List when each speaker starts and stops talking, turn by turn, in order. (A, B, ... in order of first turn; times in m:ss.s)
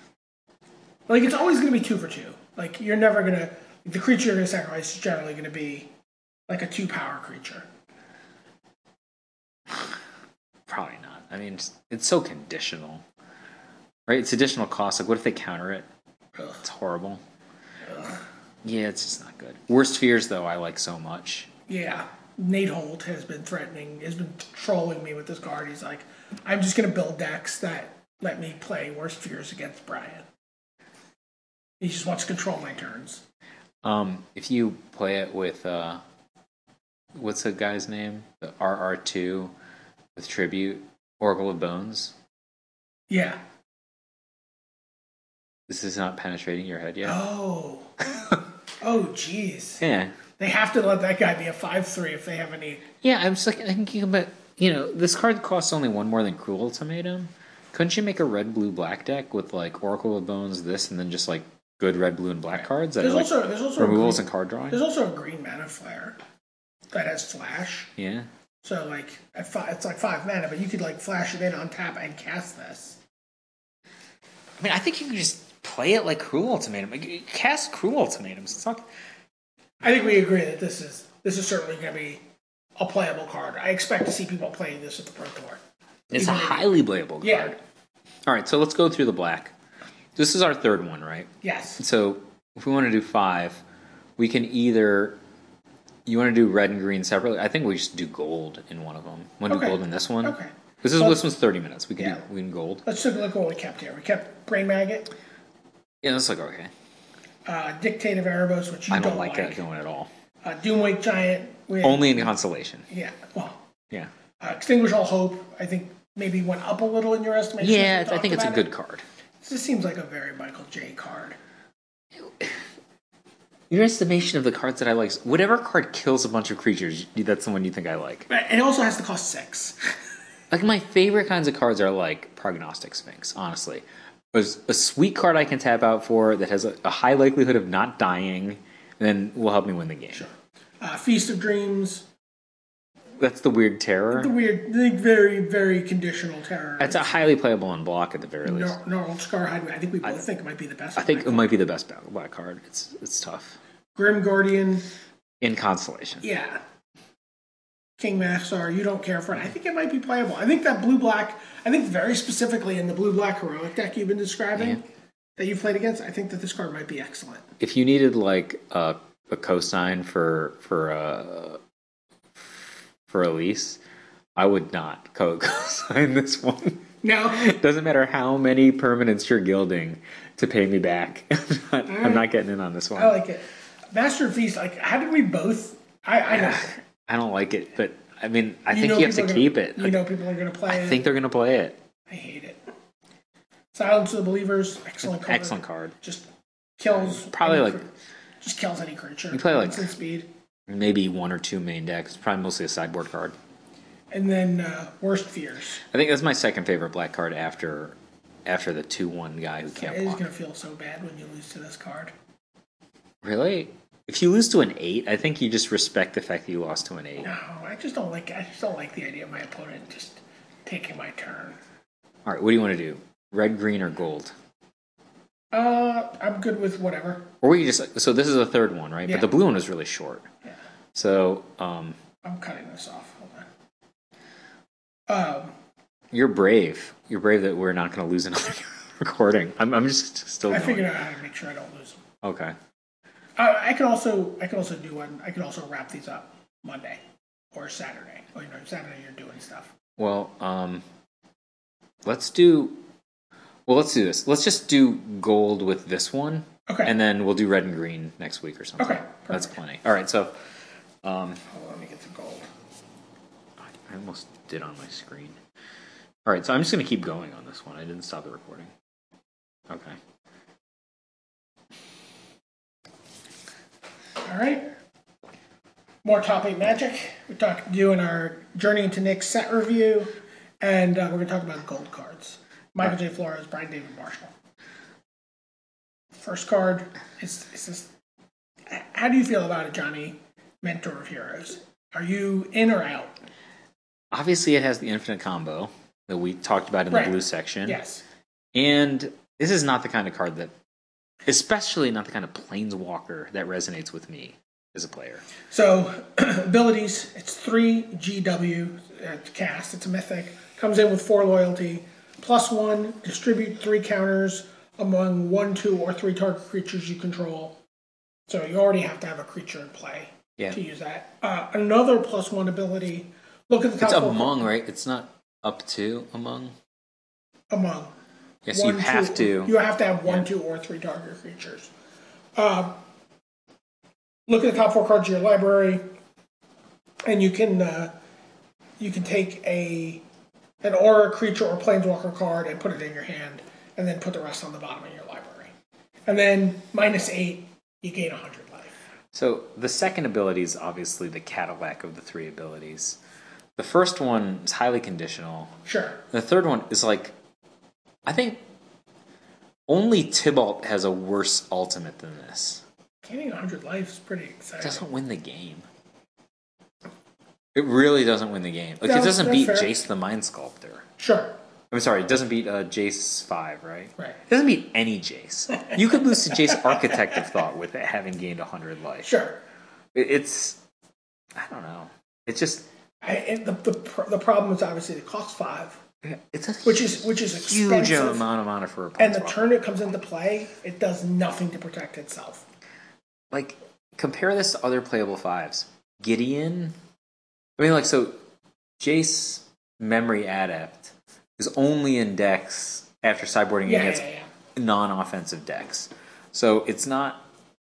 0:01.1-0:05.9 A
0:06.5-0:07.7 A
0:09.7-0:10.0 B
0:10.7-0:13.0 B
0:14.1-0:15.9 B
0:16.4-0:16.6 A
0:16.6-0:17.2 B
0:17.9-0:18.2 A
0:18.6-0:21.5 B
0:21.7-0:30.2 A
0:31.8-0:33.2 A
0:33.8-0:36.0 B
0:37.1-0:39.5 B
0:40.2-0:42.2 B
0:43.1-0:43.4 A
0:45.7-0:47.2 B
0:47.0-0:47.9 A
0:48.0-0:48.4 B
0:48.8-0:49.8 A
0:49.8-0:50.2 B
0:50.4-0:52.9 A
0:53.0-1:04.8 B
1:03.0-1:06.2 A
1:06.9-1:07.9 A
1:08.0-1:08.3 B
1:08.6-1:13.0 A
1:14.6-1:18.9 B
1:19.8-1:22.2 A
1:22.8-1:25.6 A
1:26.1-1:27.6 B
1:26.1-1:26.7 A
1:27.2-1:27.5 A
1:28.3-1:29.5 B
1:30.2-1:33.6 B
1:31.4-1:31.8 A
1:34.2-1:35.2 B
1:36.1-1:42.8 B
1:39.5-1:41.2 A
1:42.8-1:45.1 A
1:46.0-1:46.7 B
1:47.5-1:49.6 A
1:48.9-1:50.1 B
1:50.4-1:52.3 A
1:51.8-1:52.9 B
1:52.9-1:53.7 A
1:54.4-1:58.7 A
1:57.6-1:59.0 B
1:59.4-2:01.4 A
2:02.2-2:02.6 B
2:03.7-2:08.3 B
2:08.3-2:09.8 A
2:10.5-2:20.3 B
2:20.1-2:22.1 A
2:23.2-2:24.3 B
2:24.1-2:27.3 A
2:26.8-2:28.8 B
2:28.4-2:31.6 A
2:31.0-2:33.6 B
2:34.0-2:34.9 A
2:35.4-2:36.2 B
2:36.2-2:36.6 A
2:38.0-2:44.8 A
2:45.4-2:47.5 A
2:47.6-2:51.6 B
2:53.1-2:53.8 B
2:54.4-3:03.2 B
2:57.0-2:57.5 A
3:01.9-3:02.3 A
3:03.0-3:06.8 A
3:06.3-3:10.0 B
3:08.7-3:11.0 A
3:10.7-3:11.8 B
3:12.1-3:12.6 A
3:13.7-3:16.3 A
3:15.0-3:16.0 B
3:16.8-3:20.3 A
3:17.0-3:17.8 B
3:19.3-3:19.9 B
3:20.7-3:23.4 B
3:24.1-3:25.8 A
3:25.9-3:30.2 B
3:29.8-3:32.1 A
3:33.2-3:37.3 B
3:37.2-3:41.6 A
3:42.2-3:44.3 B
3:45.5-3:47.3 A
3:47.4-3:50.3 B
3:49.1-3:49.3 A
3:50.9-3:52.0 B
3:52.2-3:53.5 A
3:55.1-3:55.5 A
3:56.1-4:00.9 B
4:00.5-4:02.0 A
4:02.2-4:02.6 B
4:03.4-4:07.0 A
4:07.5-4:09.7 A
4:10.0-4:10.8 B
4:12.0-4:12.8 B
4:13.7-4:20.4 B
4:16.7-4:16.9 A
4:18.8-4:19.5 A
4:21.0-4:21.4 B
4:21.5-4:22.5 A
4:23.6-4:25.4 B
4:26.2-4:28.7 B
4:29.7-4:30.0 B
4:34.2-4:34.7 A
4:36.0-4:44.3 A
4:46.1-4:47.9 A
4:48.7-4:53.2 A
4:54.1-4:57.8 B
4:56.9-4:58.0 A
4:58.5-5:00.5 B
5:01.3-5:05.2 B
5:05.5-5:17.6 A
5:18.3-5:24.5 A
5:23.8-5:26.6 B
5:27.5-5:27.9 A
5:28.5-5:30.3 B
5:28.5-5:31.7 A
5:32.4-5:32.8 A
5:34.3-5:35.8 A
5:37.0-5:38.0 A
5:38.8-5:40.0 A
5:40.6-5:45.5 A
5:46.1-5:48.7 A
5:49.1-5:53.0 B
5:53.6-5:55.6 B
5:55.7-5:56.0 A
5:56.1-5:57.2 B
5:58.1-5:58.4 B
5:59.7-6:02.6 B
6:03.0-6:04.8 A
6:04.6-6:05.7 B
6:07.5-6:10.9 B
6:08.8-6:09.8 A
6:11.0-6:11.4 A
6:11.7-6:19.1 B
6:19.0-6:19.4 A
6:19.9-6:20.6 B
6:21.4-6:22.7 B
6:23.0-6:25.8 A
6:26.0-6:29.5 B
6:26.6-6:28.3 A
6:29.0-6:32.5 A
6:33.3-6:36.8 B
6:37.6-6:38.2 B
6:38.8-6:47.3 B
6:43.6-6:44.3 A